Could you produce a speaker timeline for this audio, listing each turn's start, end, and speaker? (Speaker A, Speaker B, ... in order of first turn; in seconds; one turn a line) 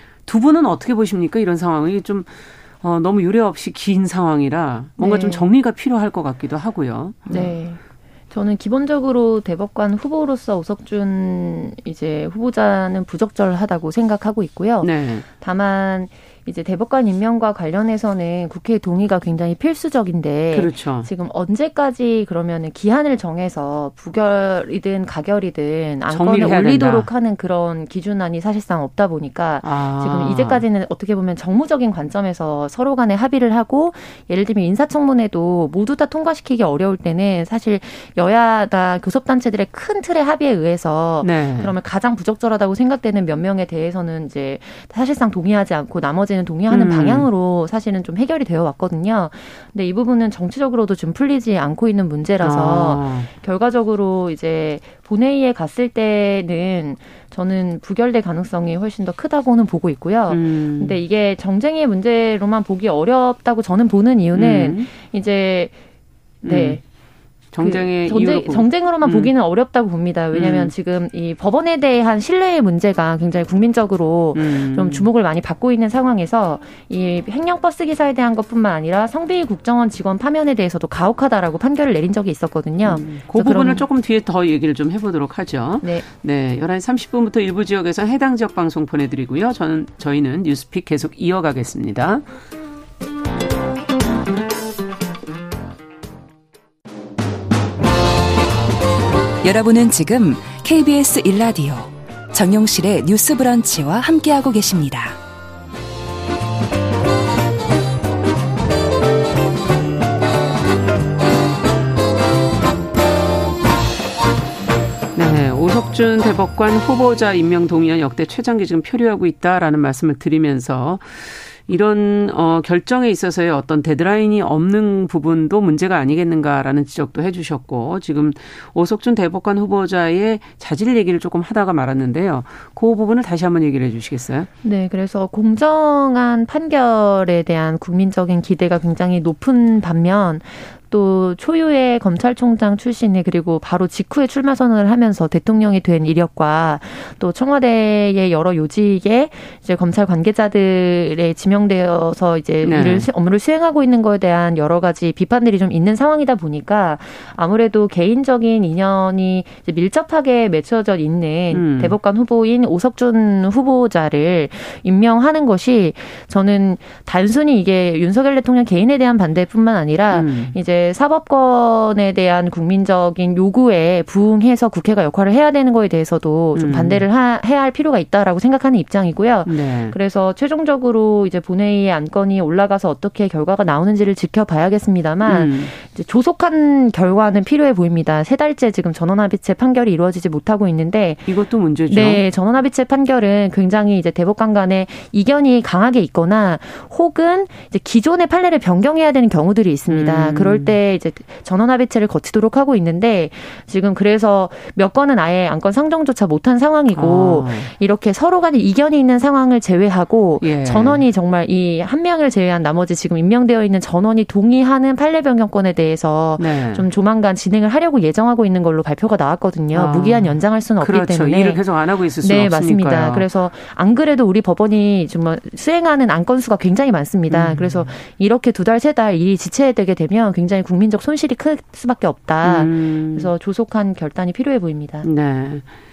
Speaker A: 0.2-7.3
Speaker B: 5.0-5.5
Speaker B: 7.3-65.7
Speaker A: 14.8-15.2
Speaker A: 20.5-21.1
Speaker A: 26.1-27.1
Speaker A: 29.6-30.6
Speaker A: 41.2-41.7
Speaker A: 46.7-47.3
Speaker A: 52.4-53.3
Speaker A: 60.3-61.0
Speaker A: 64.3-64.9
Speaker B: 66.4-66.8
Speaker A: 66.4-66.8
Speaker A: 67.5-69.3
Speaker B: 67.6-83.8
Speaker A: 70.3-70.7
Speaker A: 74.3-75.0
Speaker A: 82.8-92.2
Speaker C: 99.4-105.2
Speaker A: 115.1-134.5
Speaker B: 134.6-191.3
Speaker A: 152.6-153.1
Speaker A: 161.5-161.9
Speaker A: 170.1-170.5
Speaker A: 176.5-177.0
Speaker A: 179.4-179.9
Speaker A: 185.2-185.7
Speaker A: 191.3-192.2
Speaker B: 191.9-221.6
Speaker A: 199.9-200.7
Speaker A: 206.9-207.7
Speaker A: 210.4-211.0
Speaker A: 216.4-216.8
Speaker A: 219.7-223.2
Speaker B: 222.2-235.1
Speaker A: 227.3-227.9
Speaker A: 232.4-233.3
Speaker A: 235.0-235.7